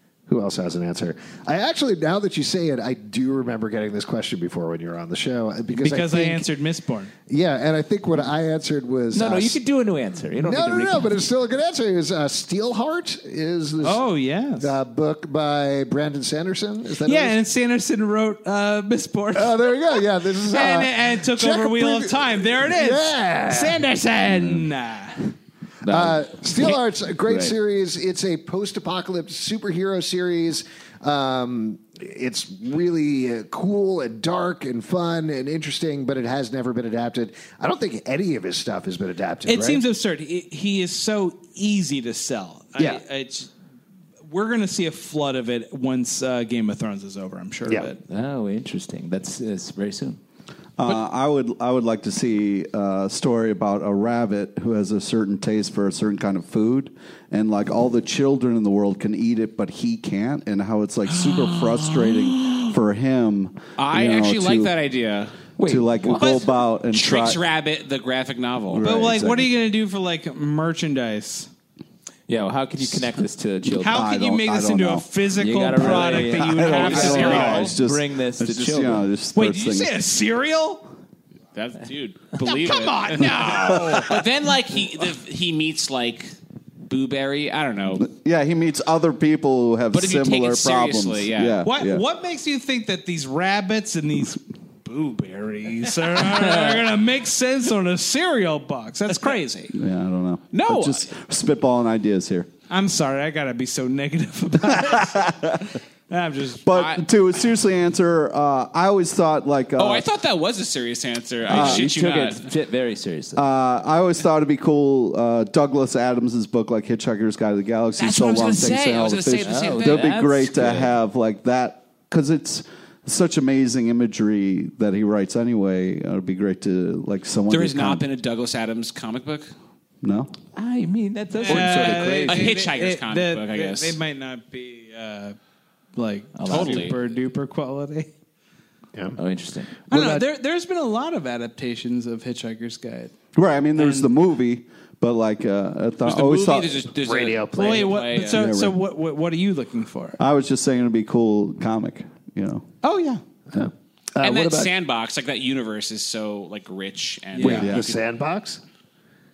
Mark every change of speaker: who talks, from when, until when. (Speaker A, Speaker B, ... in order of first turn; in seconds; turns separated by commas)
Speaker A: 0.3-6.5, Speaker B: 5.7-7.1, Speaker A: 7.3-9.6, Speaker C: 9.1-11.2, Speaker A: 10.4-14.0, Speaker B: 13.8-14.7, Speaker A: 14.6-17.4, Speaker B: 17.0-19.6, Speaker A: 19.3-23.8, Speaker B: 20.5-25.3, Speaker C: 25.8-27.6, Speaker A: 25.9-39.8, Speaker B: 39.5-43.5, Speaker A: 42.8-43.0, Speaker B: 44.2-48.0, Speaker A: 47.7-47.9, Speaker C: 48.1-50.2, Speaker D: 50.8-64.7, Speaker E: 61.1-62.7, Speaker E: 63.8-65.4, Speaker C: 65.6-66.5, Speaker D: 65.6-67.4, Speaker E: 66.9-68.8, Speaker D: 68.7-69.5, Speaker B: 68.8-71.5, Speaker C: 72.3-74.1, Speaker B: 73.8-77.7, Speaker D: 73.8-75.1, Speaker C: 75.4-79.1, Speaker D: 75.8-79.9, Speaker E: 76.6-77.8, Speaker B: 79.3-80.9, Speaker E: 81.5-86.3, Speaker B: 82.4-84.3, Speaker E: 86.9-88.1, Speaker D: 88.0-92.0, Speaker E: 89.9-91.6, Speaker B: 91.6-99.8, Speaker C: 96.3-96.8, Speaker D: 99.8-102.5, Speaker E: 100.5-101.1, Speaker B: 102.7-105.5, Speaker D: 104.8-105.5, Speaker B: 106.1-106.7, Speaker D: 106.6-110.1, Speaker E: 106.7-107.0, Speaker E: 109.8-112.5, Speaker D: 111.5-111.9, Speaker C: 111.5-113.4, Speaker D: 113.4-128.0, Speaker E: 118.0-119.9, Speaker C: 119.4-121.0, Speaker E: 127.5-129.5, Speaker D: 130.0-130.3, Speaker C: 130.6-132.6, Speaker B: 131.3-135.4, Speaker E: 131.4-134.0, Speaker B: 136.0-138.1, Speaker C: 136.4-136.9, Speaker E: 136.5-137.0, Speaker C: 139.2-139.8, Speaker B: 139.9-143.2, Speaker D: 143.3-146.8, Speaker B: 143.8-144.1, Speaker E: 146.0-148.5, Speaker A: 147.0-148.0, Speaker B: 147.5-150.2, Speaker D: 148.3-148.8, Speaker D: 150.2-152.7, Speaker B: 152.8-153.2, Speaker A: 153.5-154.8, Speaker E: 154.2-158.0, Speaker B: 157.4-157.7, Speaker A: 157.4-158.6, Speaker D: 157.4-157.8